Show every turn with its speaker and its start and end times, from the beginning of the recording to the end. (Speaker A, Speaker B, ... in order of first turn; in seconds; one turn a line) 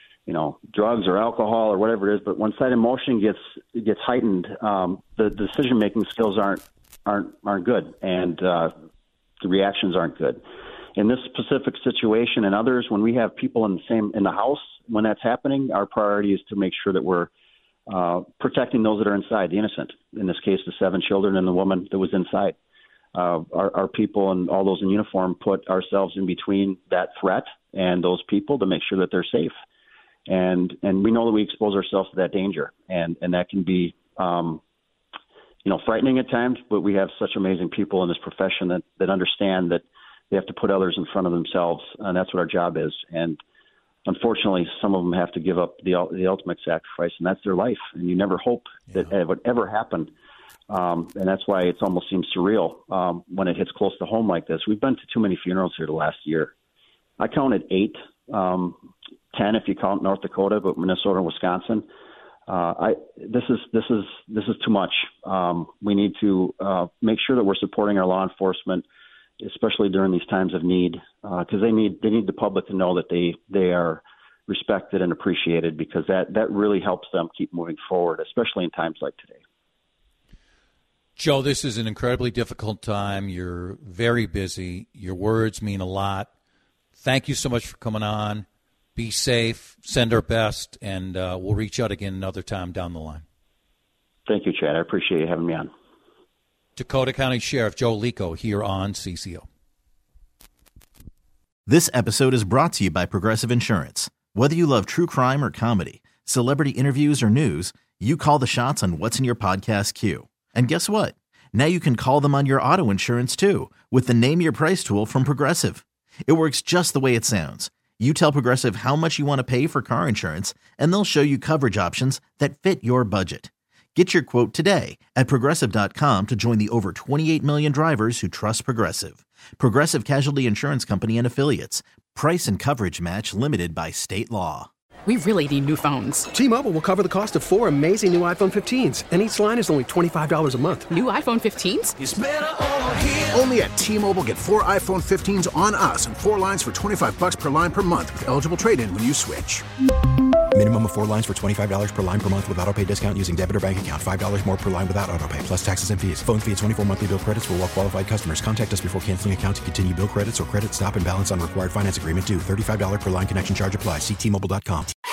Speaker A: 0.3-8.7
Speaker A: 9.4-10.4
Speaker A: 10.9-17.3
Speaker A: 17.9-22.6
Speaker A: 23.1-29.5
Speaker A: 30.3-34.6
Speaker A: 35.6-43.4
Speaker A: 44.0-50.1
Speaker A: 50.7-56.5
Speaker A: 57.2-58.8
Speaker A: 59.3-61.9
Speaker A: 62.5-68.8
Speaker A: 69.4-79.4
Speaker B: 81.2-86.3
Speaker B: 87.0-93.2
Speaker A: 94.3-95.7
Speaker B: 96.8-99.5
Speaker C: 101.7-134.7
Speaker D: 135.1-136.3
Speaker E: 136.3-141.0
Speaker D: 140.9-141.9
Speaker F: 142.0-149.7
Speaker G: 150.5-164.9